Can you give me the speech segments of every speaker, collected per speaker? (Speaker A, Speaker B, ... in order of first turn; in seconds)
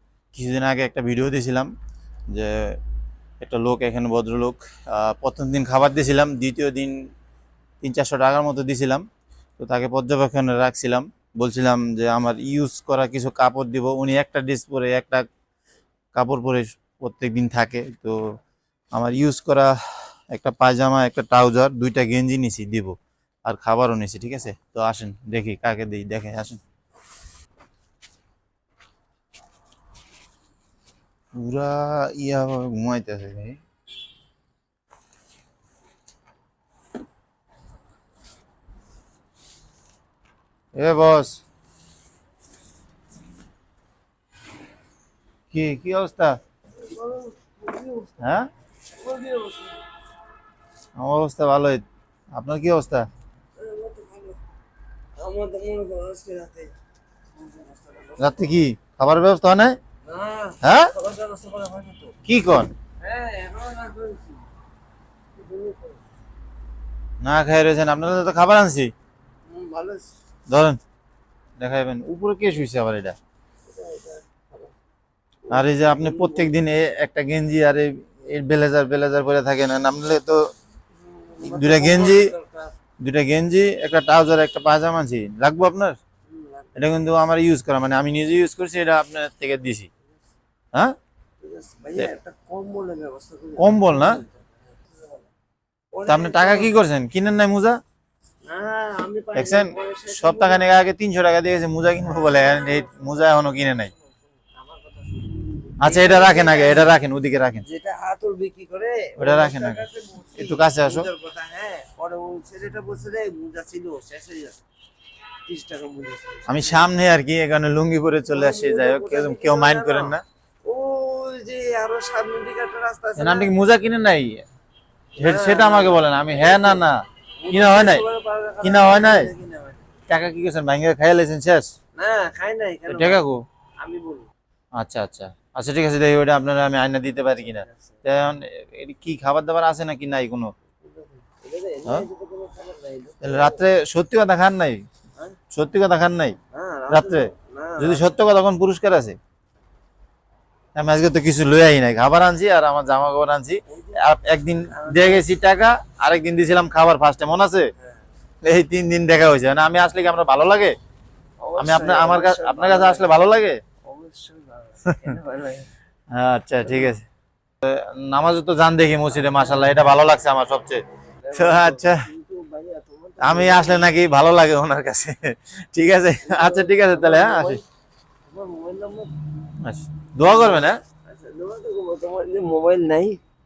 Speaker A: 0.3-1.7, 2.3-2.8, 3.4-7.0, 7.8-9.0, 9.6-15.3, 16.1-18.2, 18.9-19.8, 20.3-26.6, 31.3-33.6, 40.7-41.4, 45.5-46.4, 48.2-48.5, 51.0-51.8, 52.4-53.0, 58.2-59.8, 60.6-60.9, 62.2-62.7, 67.2-68.9, 70.5-70.8, 71.6-73.2, 75.5-80.5, 81.4-82.3, 83.0-86.0, 86.8-89.9, 93.6-94.2, 96.0-97.8, 99.3-103.9, 105.8-107.6, 109.2-109.8, 110.4-111.1, 116.5-120.2, 123.2-124.4, 125.2-128.0, 128.6-129.3, 130.1-131.7, 132.9-133.4, 134.8-140.5, 143.2-144.8, 145.5-146.4, 146.9-149.2, 150.7-157.7, 158.4-160.7, 161.6-163.6, 166.1-167.0, 167.6-170.8, 171.3-172.1, 173.2-177.6, 179.6-180.8
Speaker B: 46.8-48.3, 48.9-49.8, 53.5-54.4, 55.2-56.7, 57.3-58.6, 60.0-62.1, 63.0-64.4, 65.3-66.0, 69.5-70.1, 73.7-74.7, 75.5-76.5, 80.9-82.7, 86.3-86.8, 91.4-94.5, 95.9-96.7, 98.5-100.8, 102.5-106.9, 107.6-114.6, 115.4-116.9, 118.3-123.5, 125.2-126.9, 127.4-129.9, 131.9-133.3, 133.8-134.3, 137.5-138.0, 140.8-143.6, 146.5-148.0, 153.7-154.0, 154.7-155.3, 161.4-163.2, 163.8-165.7, 166.6-166.9, 171.2-173.9, 176.2-177.6, 178.3-179.2, 180.2-183.2